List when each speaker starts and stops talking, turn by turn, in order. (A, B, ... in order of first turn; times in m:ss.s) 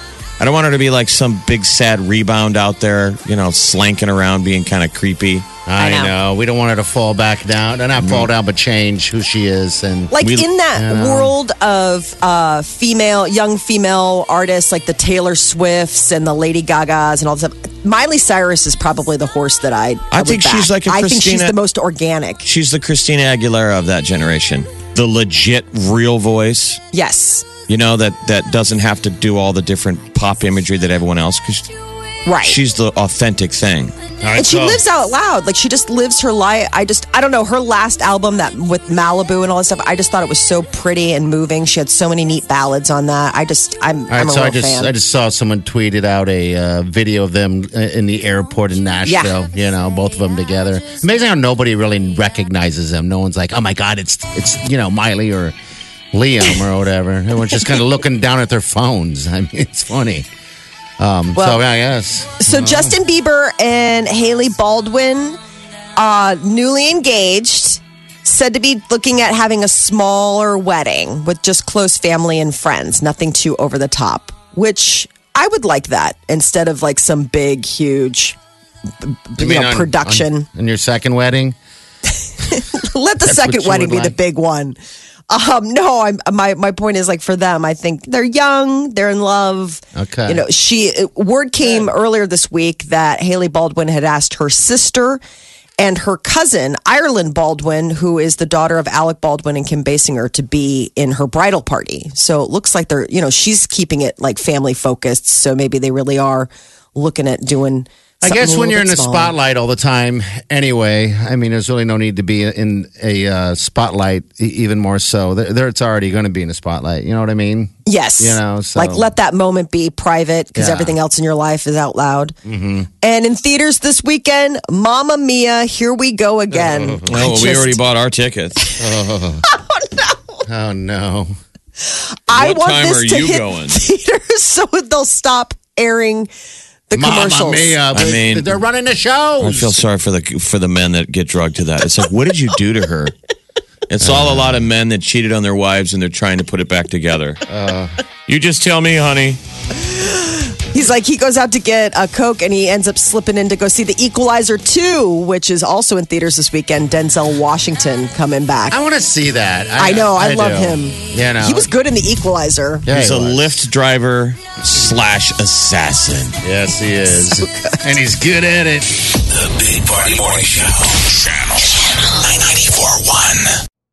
0:00.4-0:05.5 A
0:05.6-0:10.2 B
0:05.8-0:06.1 C
0:08.0-0:08.3 A
0:10.1-0:22.4 C
0:10.7-0:11.3 B
0:20.1-0:21.6 A
0:22.4-0:26.8 A
0:26.9-0:27.5 C
0:27.7-0:31.7 A
0:32.2-0:32.6 C
0:32.4-0:33.9 A
0:34.2-0:34.8 B
0:34.4-0:44.9 C
0:44.1-0:55.5 B
0:49.0-0:49.4 C
0:56.1-1:00.2 B
1:01.0-1:03.0 B
1:01.4-1:01.6 C
1:02.4-1:05.4 C
1:06.0-1:18.4 C
1:19.0-1:20.4 C
1:19.4-1:21.6 B
1:22.5-1:24.8 C
1:23.2-1:24.1 B
1:25.3-1:35.2 C
1:29.9-1:30.4 B
1:35.8-1:49.3 C
1:48.2-1:59.1 B
1:57.9-2:02.4 C
2:00.6-2:01.0 B
2:02.4-2:02.9 B
2:03.0-2:07.8 C
2:06.5-2:07.6 B
2:07.1-2:08.6 A
2:08.8-2:09.4 B
2:09.5-2:10.4 C
2:10.5-2:11.3 B
2:11.8-2:16.3 C
2:12.3-2:13.8 A
2:16.9-2:17.8 C
2:17.0-2:19.8 B
2:17.9-2:18.6 A
2:19.4-2:23.1 A
2:23.9-2:27.4 A
2:24.0-2:24.6 B
2:27.5-2:27.9 B
2:28.3-2:29.4 A
2:30.0-2:38.8 C
2:38.7-2:41.7 B
2:39.8-2:42.9 C
2:42.9-2:43.6 B
2:42.9-2:46.4 A
2:46.4-2:48.9 B
2:49.2-2:53.6 D